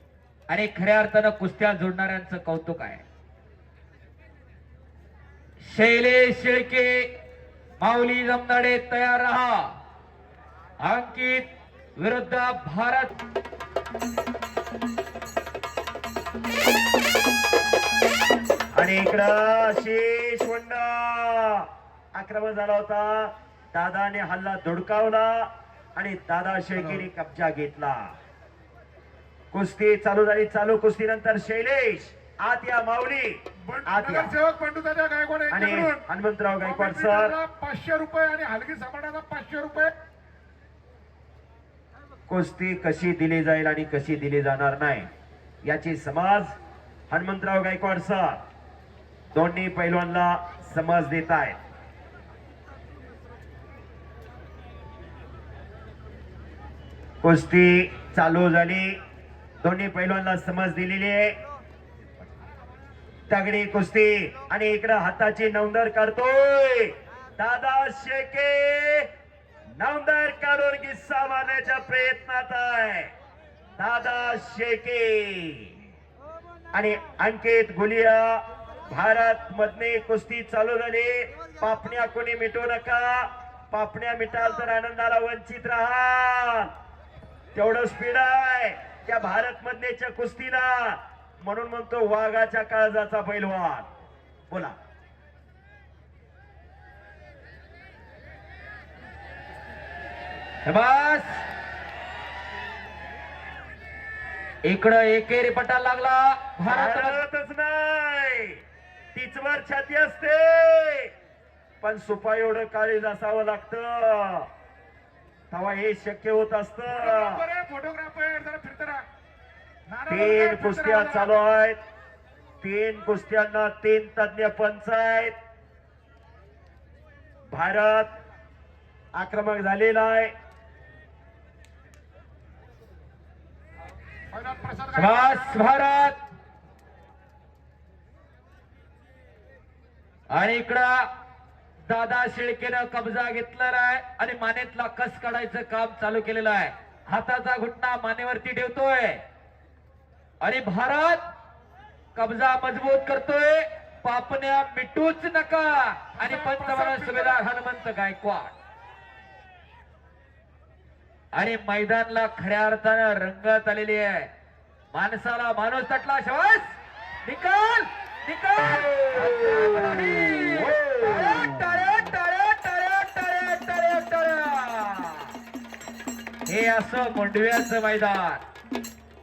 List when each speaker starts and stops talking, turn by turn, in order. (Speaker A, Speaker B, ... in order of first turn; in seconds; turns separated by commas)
Speaker A: 0.5-3.0, Speaker A: 5.6-7.1, Speaker A: 7.8-9.7, Speaker A: 10.8-11.4, Speaker A: 12.0-13.1, Speaker B: 18.8-28.1, Speaker C: 26.8-27.0, Speaker B: 29.5-34.3, Speaker C: 33.6-36.0, Speaker B: 35.5-37.3, Speaker C: 36.6-39.9, Speaker B: 42.3-45.1, Speaker B: 45.6-46.5, Speaker B: 47.1-48.4, Speaker B: 49.3-51.6, Speaker B: 57.2-59.0, Speaker B: 59.6-61.3, Speaker B: 63.3-69.1, Speaker B: 69.8-73.1, Speaker B: 73.8-75.7, Speaker B: 76.7-86.7, Speaker B: 87.5-93.9, Speaker B: 94.5-94.7, Speaker A: 100.6-101.4, Speaker A: 104.6-107.2, Speaker B: 106.7-108.6, Speaker B: 109.1-111.1, Speaker B: 111.8-114.5, Speaker B: 115.5-117.4, Speaker C: 116.9-119.0, Speaker C: 119.9-121.3, Speaker B: 120.1-121.8, Speaker B: 122.6-125.3, Speaker B: 127.5-128.1, Speaker B: 129.1-130.3, Speaker C: 134.3-135.7, Speaker A: 134.9-136.2, Speaker A: 140.3-141.1, Speaker A: 141.9-149.2, Speaker A: 150.4-151.2, Speaker A: 152.1-158.5, Speaker C: 156.2-157.4, Speaker A: 161.3-164.3, Speaker A: 164.9-175.3, Speaker B: 168.9-171.7, Speaker A: 176.4-178.4